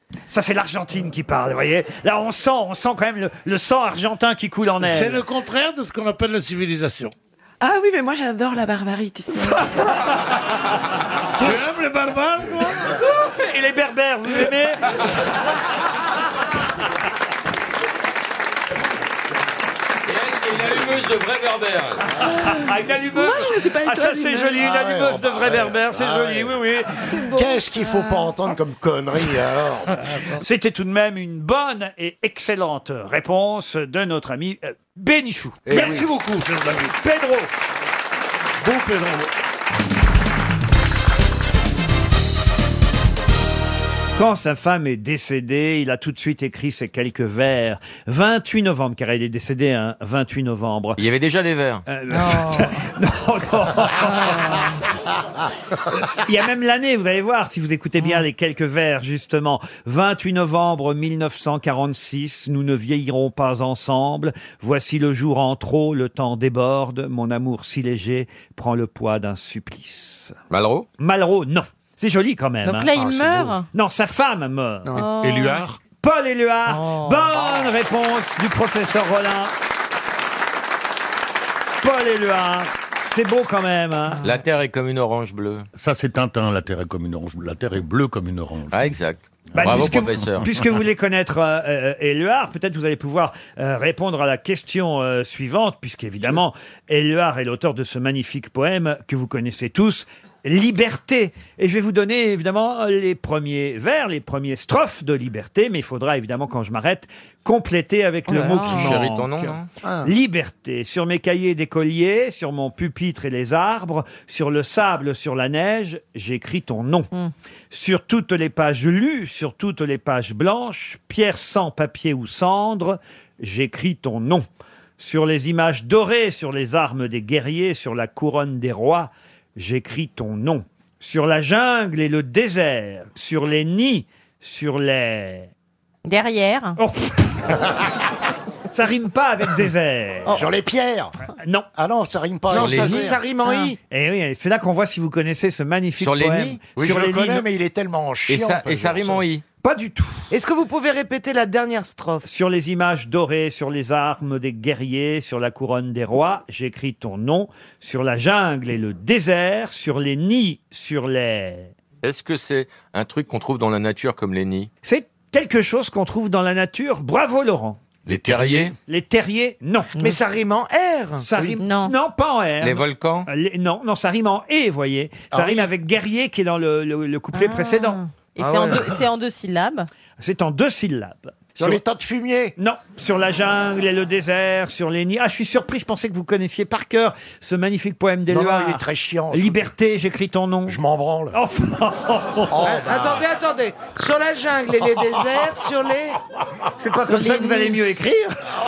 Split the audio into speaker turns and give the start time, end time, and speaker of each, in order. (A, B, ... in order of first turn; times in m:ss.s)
0:00.3-0:05.2 A
0:04.8-0:07.1 B
0:07.6-0:09.8 C
0:11.4-0:13.0 B
0:13.3-0:14.8 A
0:20.0-0:22.0 D
0:22.2-0:24.7 C
0:22.5-0:26.9 A
0:24.6-0:26.6 E
0:27.0-0:28.4 C
0:27.3-0:30.0 E
0:30.4-0:36.2 A
0:35.7-0:36.0 E
0:35.7-0:36.9 B
0:36.9-0:37.5 A
0:38.6-0:39.3 B
0:44.2-0:51.0 A
0:51.0-0:51.8 D
0:51.9-0:54.6 A
0:52.1-0:52.6 F
0:56.1-1:10.4 A
1:10.5-1:10.9 D
1:11.0-1:13.1 A
1:12.6-1:13.6 F
1:13.7-1:15.0 A
1:14.9-1:15.6 F
1:15.2-1:15.7 G
1:16.0-1:19.5 A
1:21.8-1:24.3 A
1:24.2-1:25.6 D
1:25.8-1:28.8 G
1:28.7-1:30.5 D
1:29.5-1:57.1 A
1:48.3-1:48.9 F
1:48.6-1:49.7 D
1:57.7-2:04.4 A
2:05.0-2:15.5 A
2:16.0-2:16.8 F
2:16.8-2:17.5 A
2:18.7-2:20.4 A
2:20.3-2:21.1 E
2:21.4-2:21.7 A
2:21.8-2:23.2 E
2:22.5-2:23.8 H
2:22.5-2:23.0 D
2:23.9-2:27.5 A
2:26.0-2:26.7 D
2:26.8-2:29.2 E
2:28.3-2:29.4 D
2:29.6-2:30.3 A
2:30.3-2:32.2 H
2:32.2-2:41.7 A
2:42.0-2:44.7 D
2:44.8-2:47.8 A
2:48.0-2:48.7 D
2:48.1-2:48.7 E
2:48.7-2:49.9 A
2:50.0-2:51.3 H
2:51.2-2:58.0 A
2:51.5-2:51.9 F
2:52.6-2:53.3 D
2:57.3-2:59.9 F
2:58.4-2:58.8 H
3:00.2-3:01.8 A
3:01.6-3:02.5 E
3:02.6-3:10.8 A
3:08.3-3:09.6 E
3:10.7-3:11.4 E
3:11.3-3:12.6 A
3:12.5-3:13.2 E
3:12.6-3:16.2 H
3:16.8-3:18.4 A